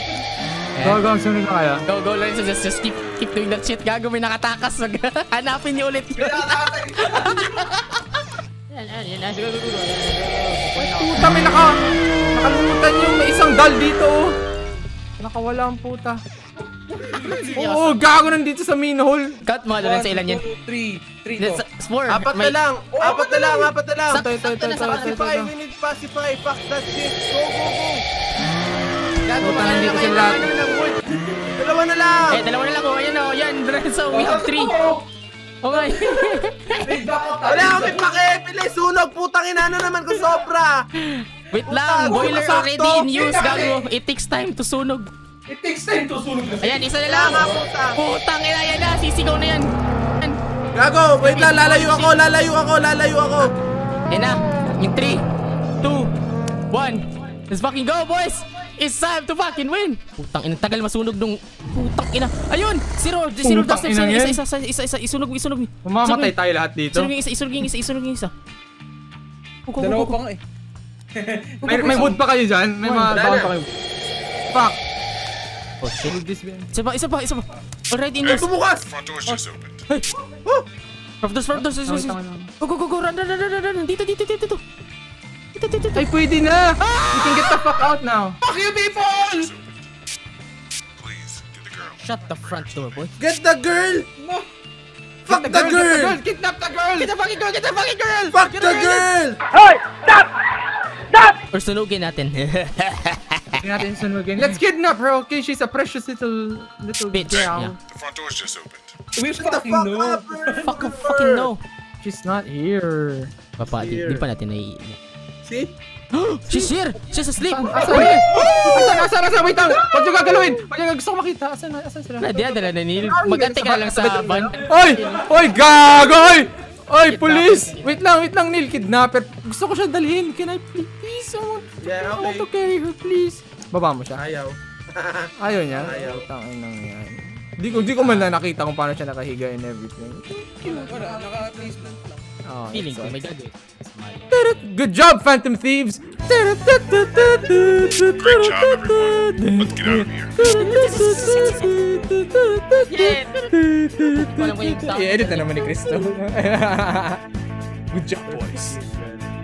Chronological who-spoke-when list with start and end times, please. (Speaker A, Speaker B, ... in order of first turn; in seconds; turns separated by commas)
Speaker A: 0.7-1.0, Speaker B: 0.8-1.8, Speaker A: 1.9-11.2, Speaker C: 6.2-7.3, Speaker B: 10.7-11.8, Speaker B: 12.3-14.3, Speaker B: 15.2-16.2, Speaker C: 17.0-17.5, Speaker A: 17.3-18.0, Speaker B: 17.5-19.4, Speaker A: 19.4-20.4, Speaker C: 19.8-21.6, Speaker A: 21.4-22.6, Speaker D: 22.1-24.2, Speaker C: 22.9-23.7, Speaker A: 24.1-25.3, Speaker B: 24.2-25.5, Speaker D: 24.9-28.0, Speaker A: 29.2-31.1, Speaker B: 29.4-30.5, Speaker D: 31.6-32.4, Speaker A: 32.3-34.8, Speaker C: 34.1-35.0, Speaker A: 35.6-36.9, Speaker C: 36.8-38.1, Speaker D: 37.4-40.9, Speaker A: 41.0-45.1, Speaker D: 41.6-43.6, Speaker C: 43.2-43.8, Speaker C: 45.5-46.9, Speaker A: 46.6-50.4, Speaker D: 47.0-48.0, Speaker D: 50.7-53.5, Speaker A: 51.2-52.1, Speaker A: 54.1-55.2, Speaker A: 55.8-56.1, Speaker A: 56.7-66.3, Speaker B: 63.4-64.4, Speaker B: 65.8-67.1, Speaker A: 66.9-68.3, Speaker A: 69.7-70.2, Speaker C: 69.8-70.4, Speaker C: 71.1-72.2, Speaker B: 71.6-73.7, Speaker D: 73.1-73.5, Speaker B: 74.5-74.8, Speaker A: 75.8-76.2, Speaker B: 76.0-76.7, Speaker A: 76.7-78.5, Speaker E: 78.2-79.8, Speaker D: 78.3-78.9, Speaker A: 81.2-84.6, Speaker B: 81.5-82.5, Speaker A: 85.5-86.2, Speaker B: 85.9-88.4, Speaker A: 86.8-87.7, Speaker C: 88.4-89.5, Speaker E: 89.2-89.7, Speaker E: 91.0-93.1, Speaker A: 92.0-93.1, Speaker D: 93.2-94.1, Speaker C: 94.2-94.5, Speaker B: 95.2-97.1, Speaker D: 95.3-96.2, Speaker A: 97.0-98.4, Speaker D: 98.3-99.4, Speaker B: 99.5-100.2, Speaker B: 101.1-101.4, Speaker A: 101.5-103.7, Speaker B: 103.6-107.7, Speaker A: 107.1-107.7, Speaker E: 107.3-108.9, Speaker C: 109.2-110.7, Speaker D: 109.4-111.5, Speaker A: 110.6-111.6, Speaker B: 112.0-113.3, Speaker A: 113.6-115.0, Speaker D: 113.7-114.2, Speaker D: 115.4-115.7, Speaker A: 116.1-119.0, Speaker B: 117.4-134.2, Speaker D: 117.8-118.9, Speaker D: 120.2-120.5, Speaker A: 122.2-126.2, Speaker A: 127.0-128.0, Speaker D: 131.8-132.5, Speaker D: 134.2-136.2, Speaker B: 135.4-141.0, Speaker A: 137.7-138.3, Speaker C: 140.7-142.2, Speaker B: 142.4-143.2, Speaker A: 142.7-144.3, Speaker B: 144.3-157.2, Speaker E: 148.2-150.4, Speaker A: 150.4-151.8, Speaker A: 152.9-153.5, Speaker A: 154.1-155.8, Speaker B: 157.9-158.7, Speaker D: 158.3-159.3